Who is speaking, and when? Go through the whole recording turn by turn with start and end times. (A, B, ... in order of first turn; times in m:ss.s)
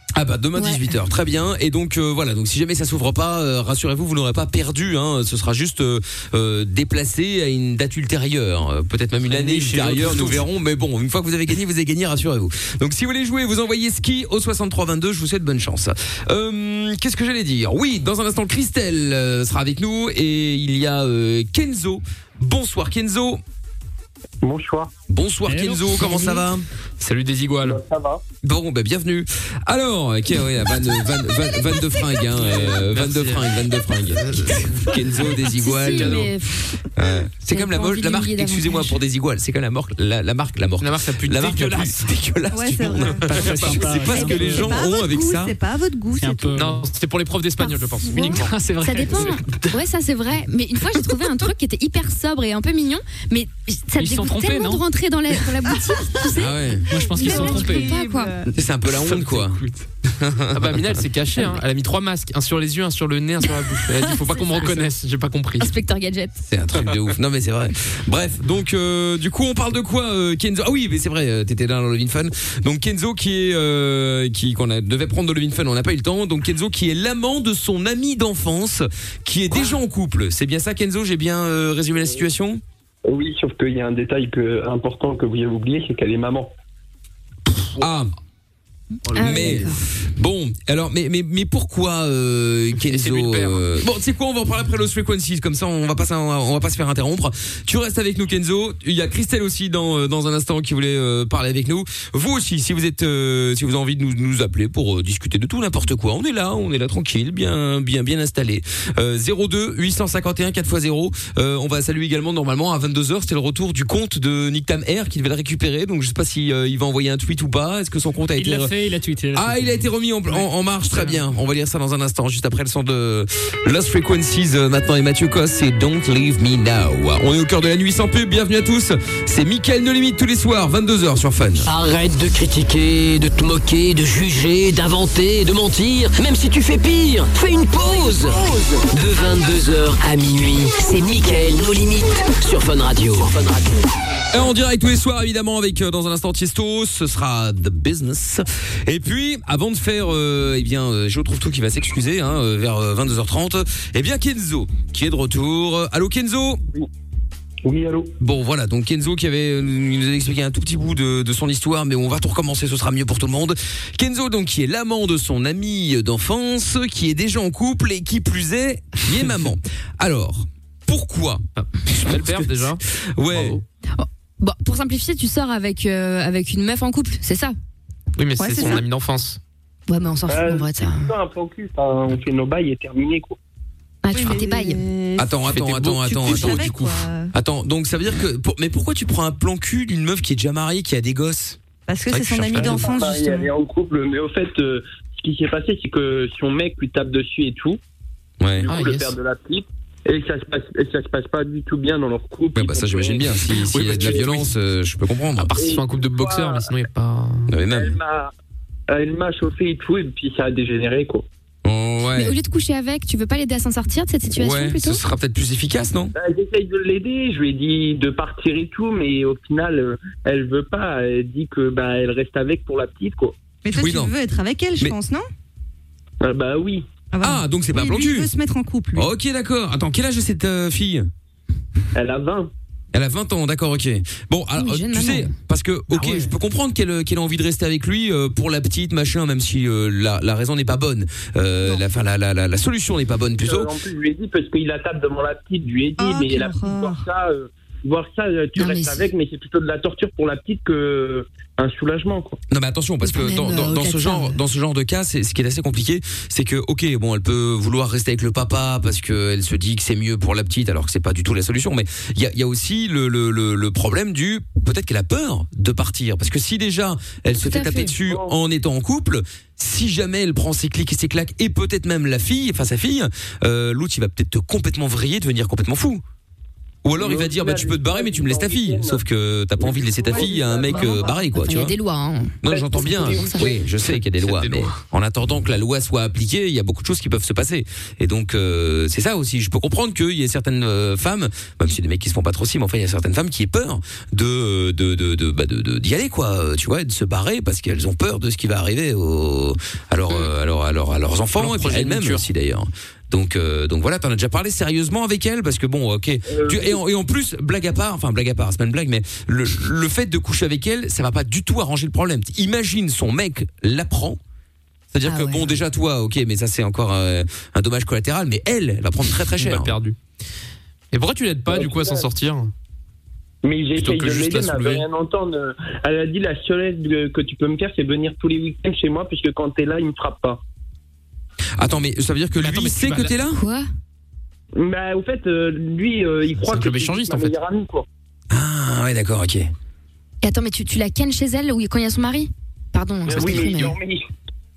0:00.2-0:23.4 A
0:09.3-0:10.4 B
0:24.4-0:24.9 C
0:25.1-0:26.7 A
0:25.5-0:26.3 D
0:27.0-0:27.8 B
0:27.6-0:28.2 C
0:28.4-0:36.3 A
0:32.4-0:33.5 B
0:34.1-0:35.0 B
0:35.5-0:36.8 E
0:37.0-0:45.6 A
0:37.5-0:39.0 E
0:40.8-0:42.1 B
0:42.5-0:43.4 F
0:43.3-0:43.8 B
0:43.4-0:44.7 D
0:44.1-0:46.7 F
0:46.2-0:46.8 D
0:46.6-0:48.5 B
0:47.6-0:56.6 E
0:48.1-0:49.4 D
0:49.4-0:49.8 B
0:54.0-0:54.8 D
0:56.3-0:56.9 A
0:56.9-0:58.0 D
0:57.1-0:58.5 F
0:57.2-0:58.3 E
0:58.5-0:59.6 A
0:58.9-0:59.9 B
1:00.2-1:00.8 A
1:00.5-1:05.7 B
1:03.8-1:04.9 E
1:05.6-1:06.4 E
1:06.5-1:22.6 A
1:23.0-1:26.5 C
1:27.8-1:28.1 A
1:29.1-1:29.7 B
1:29.1-1:29.8 E
1:29.2-1:58.7 A
1:32.8-1:33.6 B
1:58.4-2:01.2 D
1:59.3-2:11.7 A
2:11.6-2:23.7 G
2:24.3-2:36.6 A
2:37.6-2:38.1 C
2:38.2-2:53.6 A
2:51.6-2:53.6 B
2:53.9-2:57.5 E
2:58.2-2:59.4 B
2:58.4-2:58.8 F
2:59.9-3:01.1 E
3:00.3-3:03.4 C
3:04.0-3:04.8 E
3:04.1-3:05.3 F
3:05.2-3:06.8 A
3:05.4-3:07.0 B
3:06.2-3:07.3 F
3:07.3-3:11.6 A
3:11.9-3:13.5 F
3:12.1-3:12.9 B
3:12.6-3:17.8 C
3:18.4-3:18.7 A
3:18.6-3:23.3 C
3:18.7-3:19.2 B
3:22.6-3:25.6 A
3:23.7-3:24.5 B
3:23.9-3:24.2 C
3:25.4-3:27.5 B
3:25.6-3:26.7 C
3:27.5-3:28.0 A
3:27.7-3:28.3 C
3:28.9-3:31.3 C
3:31.6-3:32.4 A
3:32.1-3:35.0 E
3:34.4-3:36.1 A
3:36.1-3:43.4 C
3:43.6-3:45.3 F
3:43.8-3:44.1 A
3:46.2-3:46.9 C
3:47.1-3:49.1 F
3:47.2-3:48.3 A
3:48.9-3:51.1 A
3:52.0-3:52.5 C
3:52.9-4:03.7 A
3:54.6-3:55.3 E
4:03.4-4:12.4 C
4:06.0-4:07.0 F
4:08.6-4:09.1 E
4:12.5-4:36.0 A
4:13.0-4:14.4 E
4:27.4-4:27.9 E
4:27.9-4:28.3 C
4:36.8-4:41.8 A
4:37.0-4:39.0 C
4:39.6-4:41.2 C
4:40.7-4:43.5 E
4:42.4-5:14.2 A
4:42.5-4:43.3 C
4:44.0-4:44.8 B
5:01.4-5:02.3 B
5:06.3-5:06.8 C
5:14.9-5:19.8 A
5:15.0-5:15.6 E
5:19.4-5:20.0 B
5:20.9-5:22.5 B
5:21.5-5:22.1 C
5:23.4-5:30.4 C
5:23.8-5:24.8 B
5:31.6-5:33.4 A
5:32.4-5:33.1 B
5:33.3-5:33.7 E
5:34.6-5:37.9 C
5:36.5-5:37.3 B
5:38.3-5:39.5 A
5:40.2-5:43.8 E
5:43.1-5:44.0 C